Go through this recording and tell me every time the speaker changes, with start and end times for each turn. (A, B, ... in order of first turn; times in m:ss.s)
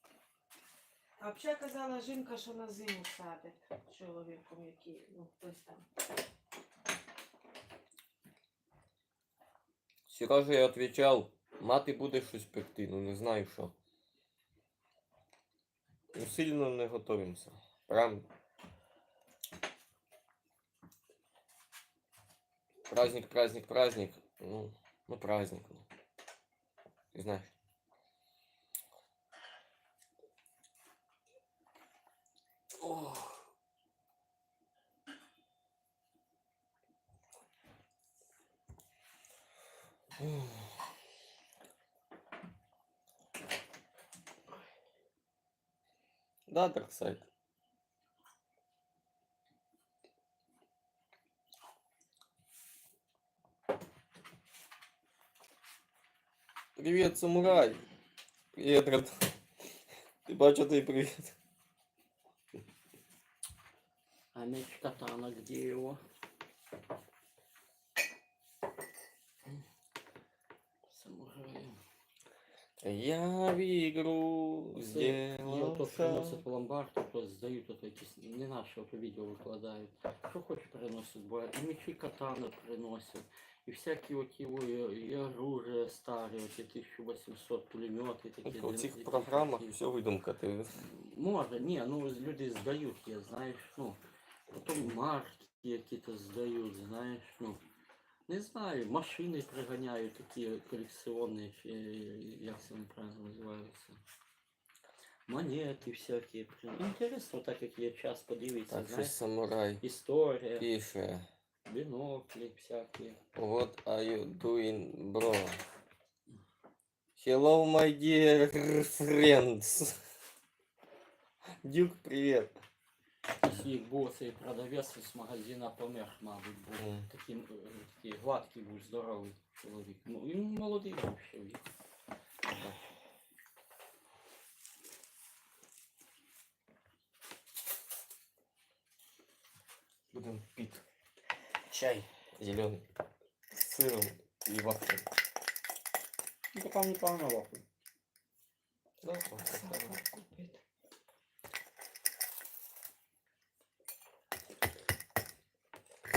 0:01.2-0:05.8 A
0:10.1-0:13.7 B
0:16.1-0:18.3 B
0:22.9-0:25.9 B
0:27.1-0:27.5 B
0:32.8-0:33.3 B
0:40.2-0:40.7 B
0:46.5-0:47.3 B
0:56.8-0:57.8 B
0:58.5-0:59.4 B
1:00.2-1:01.3 B
1:04.3-1:06.0 C
1:10.9-1:11.8 C
1:12.8-1:16.4 B
1:14.8-1:29.8 C
1:28.4-1:30.8 B
1:30.8-1:34.0 C
1:34.5-1:37.6 C
1:38.3-1:44.0 C
1:45.3-1:49.2 C
1:48.7-1:49.8 B
1:49.8-1:50.7 C
1:50.6-1:51.3 B
1:51.7-1:53.2 C
1:53.4-1:55.6 B
1:57.2-2:00.0 B
2:01.6-2:02.5 B
2:03.4-2:11.6 C
2:06.8-2:07.1 B
2:20.1-2:20.8 B
2:21.7-2:22.1 C
2:22.4-2:22.8 B
2:23.5-2:25.1 B
2:26.5-2:27.6 C
2:29.0-2:30.0 B
2:29.5-2:30.6 A